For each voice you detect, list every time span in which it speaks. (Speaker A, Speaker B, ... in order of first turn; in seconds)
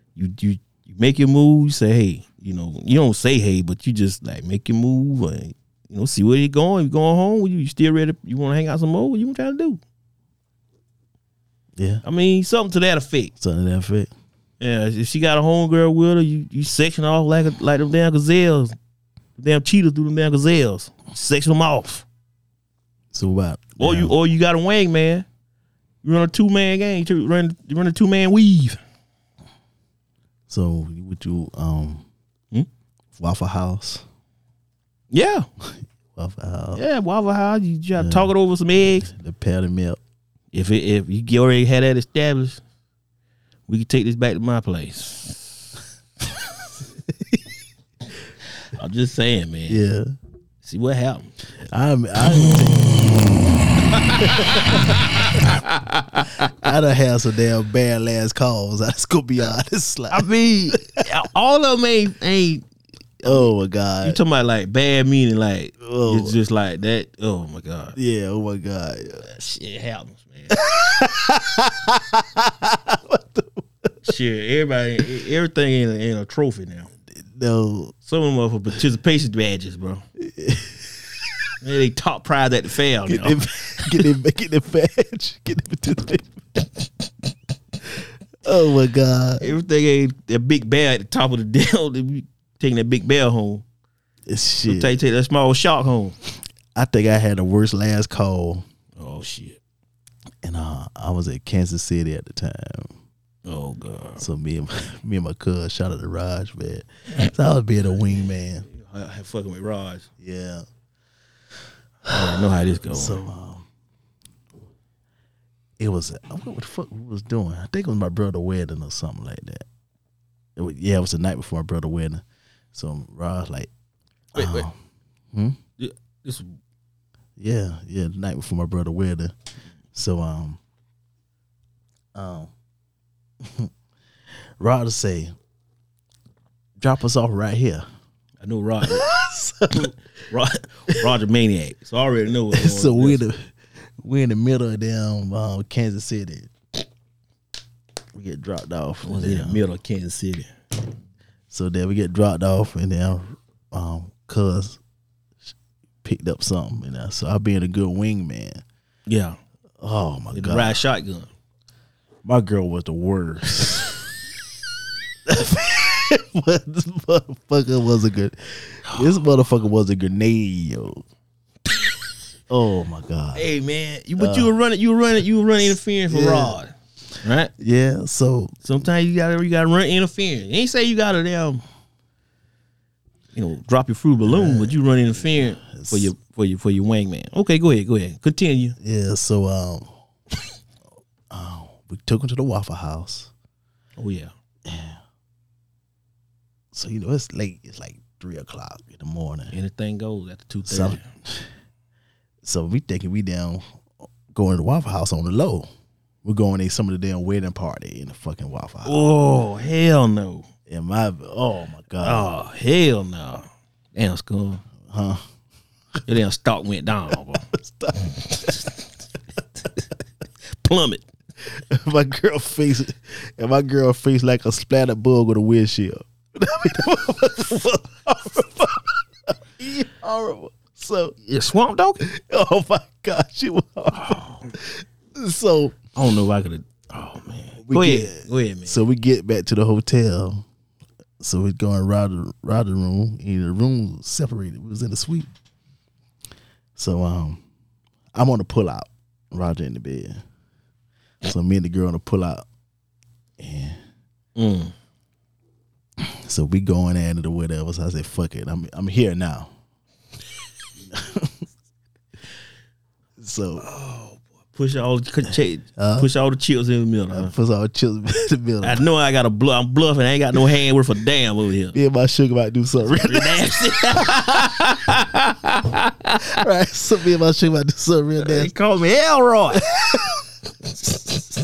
Speaker A: 0.1-9.8, 12.0-13.3, 14.6-18.7, 19.4-22.1, 23.8-25.2, 26.0-28.8, 35.1-35.5, 36.7-39.1, 40.5-42.6, 43.7-45.5, 48.7-49.8, 50.6-51.3, 53.9-56.5, 60.1-62.6, 63.2-63.5, 64.0-68.0, 69.2-70.6, 74.0-76.9, 78.0-80.0, 81.6-83.4, 89.4-93.6, 94.7-96.2, 99.0-99.6, 103.5-104.2, 108.7-110.1, 112.1-113.2, 124.3-124.7, 125.8-126.5, 138.4-139.1, 139.7-143.2, 149.0-150.5, 159.1-159.4, 160.3-161.3, 173.3-177.5, 178.6-181.6, 183.3-188.8, 194.0-194.3, 199.5-201.0, 208.8-210.5, 212.0-214.6, 216.1-217.4, 220.5-221.0, 231.2-232.0, 233.9-234.4, 235.9-238.8, 254.3-254.7, 263.6-267.3, 268.6-271.8, 272.9-276.3, 278.2-279.7
Speaker B: 11.8-12.0, 13.4-14.1, 23.1-24.1, 30.5-32.0, 33.1-34.0, 35.6-36.8, 38.0-38.3, 39.0-40.0, 49.7-50.1, 51.7-53.4, 54.2-55.0, 56.6-60.8, 63.2-64.2, 65.8-66.3, 68.0-69.2, 70.5-73.7, 77.2-77.9, 80.2-81.5, 83.1-86.8, 87.9-89.5, 94.3-94.9, 96.7-98.7, 100.4-102.9, 104.2-108.7, 110.2-110.6, 112.9-113.7, 115.8-119.6, 120.5-123.7, 124.3-124.8, 125.3-125.6, 127.4-129.3, 129.9-130.6, 132.1-132.5, 133.4-133.7, 134.6-135.3, 136.8-137.8, 138.8-139.9, 142.5-146.5, 148.1-149.6, 151.5-154.8, 156.0-158.6, 159.8-160.8, 162.2-164.0, 165.3-171.0, 172.5-173.5, 174.2-174.5, 176.1-176.6, 177.6-178.6, 184.2-186.1, 188.8-189.9, 191.3-193.3, 194.7-195.0, 196.7-199.5, 200.7-201.5, 202.4-203.6, 204.3-205.7, 206.2-209.0, 210.7-212.3, 214.8-215.2, 217.5-218.7, 221.4-231.2, 232.0-235.8, 237.6-240.4, 241.2-245.3, 246.8-247.4, 248.1-250.2, 251.2-252.4, 253.4-253.8, 256.0-259.5, 260.9-261.4, 263.2-263.6, 265.8-266.1, 267.1-268.8, 271.7-274.5, 276.2-278.5, 279.6-280.2